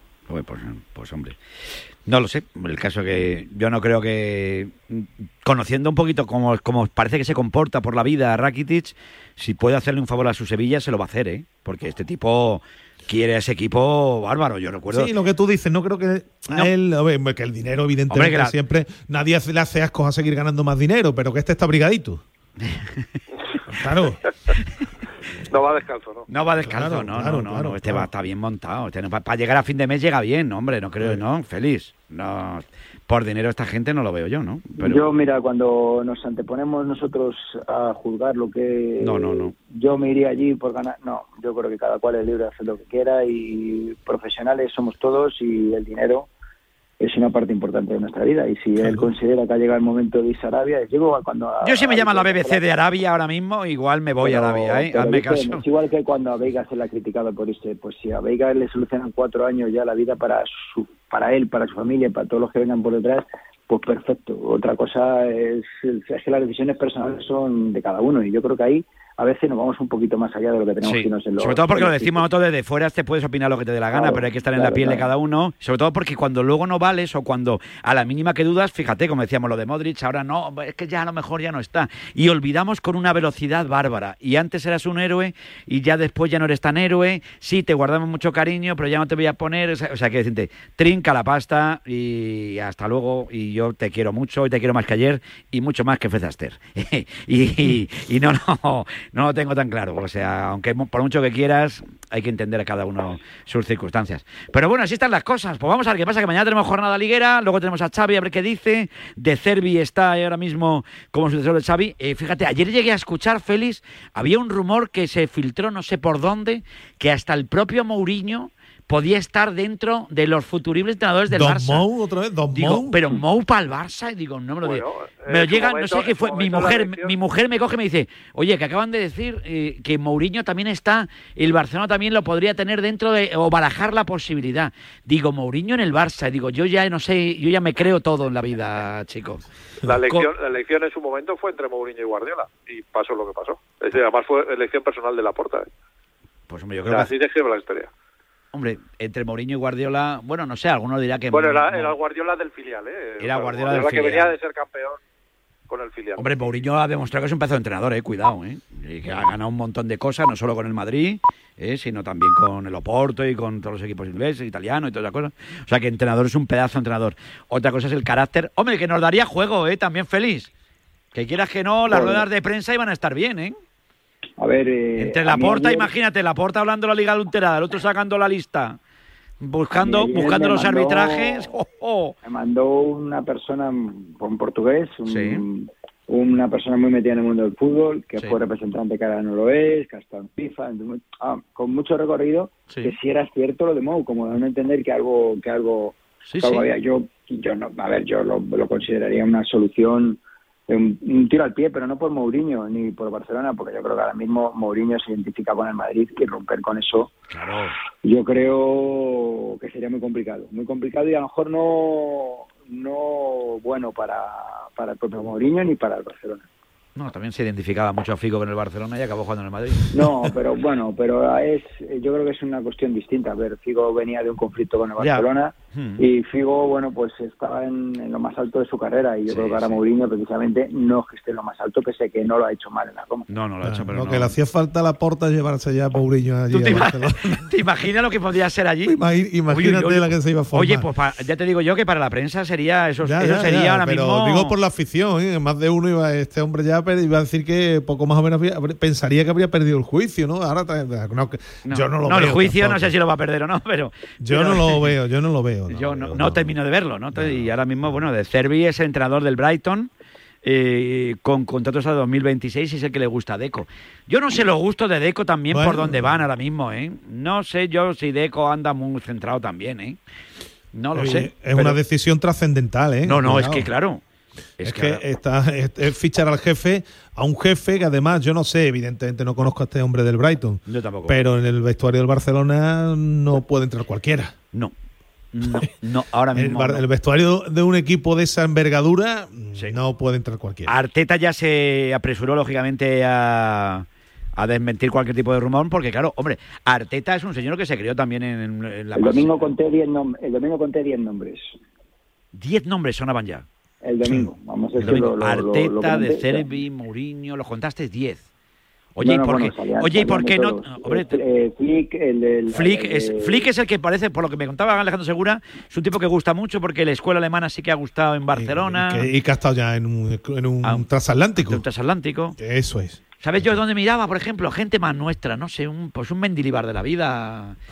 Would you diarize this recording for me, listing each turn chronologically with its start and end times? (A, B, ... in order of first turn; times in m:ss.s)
0:00.3-0:01.4 A
0:02.0-0:15.1 A
0:14.9-0:22.2 B
0:18.1-0:18.5 A
0:22.6-0:23.0 A
0:23.7-0:24.2 B
0:25.5-0:26.3 C
0:26.3-0:35.0 A
0:26.6-0:28.1 B
0:34.8-0:46.3 D
0:39.0-0:39.5 A
0:47.0-0:52.6 D
0:48.8-0:49.1 B
0:51.6-0:55.6 A
0:54.2-1:12.2 D
1:10.8-2:01.8 A
1:13.9-1:15.1 D
2:01.3-2:03.1 B
2:02.5-2:20.3 A
2:04.6-2:07.1 C
2:19.8-2:25.7 C
2:26.5-2:27.1 A
2:26.9-2:27.9 C
2:28.5-2:32.0 A
2:31.3-2:35.0 C
2:33.2-2:34.3 A
2:35.7-2:36.3 C
2:36.2-2:50.5 A
2:51.1-2:53.5 A
2:51.9-2:52.2 D
2:54.4-2:55.9 D
2:55.0-2:58.8 A
2:59.4-3:02.1 A
2:59.7-3:01.4 D
3:02.2-3:27.1 D
3:05.1-3:05.4 A
3:16.3-3:16.7 A
3:27.3-3:27.7 A
3:28.0-3:36.5 D
3:37.0-3:39.9 A
3:39.9-3:53.3 D
3:45.0-3:46.0 A
3:49.3-3:49.8 A
3:53.3-3:54.3 A
3:53.6-3:57.4 B
3:56.5-3:59.0 A
3:58.8-4:00.8 B
3:59.5-4:04.5 A
4:03.0-4:12.9 B
4:11.6-4:14.9 A
4:14.2-4:16.6 B
4:15.7-4:19.9 A
4:17.1-4:17.5 B
4:20.4-4:30.0 A
4:25.5-4:26.2 B
4:30.7-4:31.8 A
4:30.9-4:33.7 B
4:33.0-4:34.0 A
4:34.6-4:35.0 A
4:34.6-4:44.3 B
4:40.6-4:41.2 A
4:45.3-4:46.8 A
4:46.3-4:50.7 B
4:50.7-4:53.8 A
4:54.4-4:59.5 A
4:58.9-5:01.5 D
5:02.3-5:03.4 A
5:03.8-5:06.4 D
5:04.8-5:08.2 A
5:08.9-5:11.2 A
5:09.0-5:13.5 D
5:12.5-5:19.1 A
5:18.3-5:21.6 B
5:21.4-5:22.4 A
5:22.4-5:23.6 B
5:23.2-5:27.6 A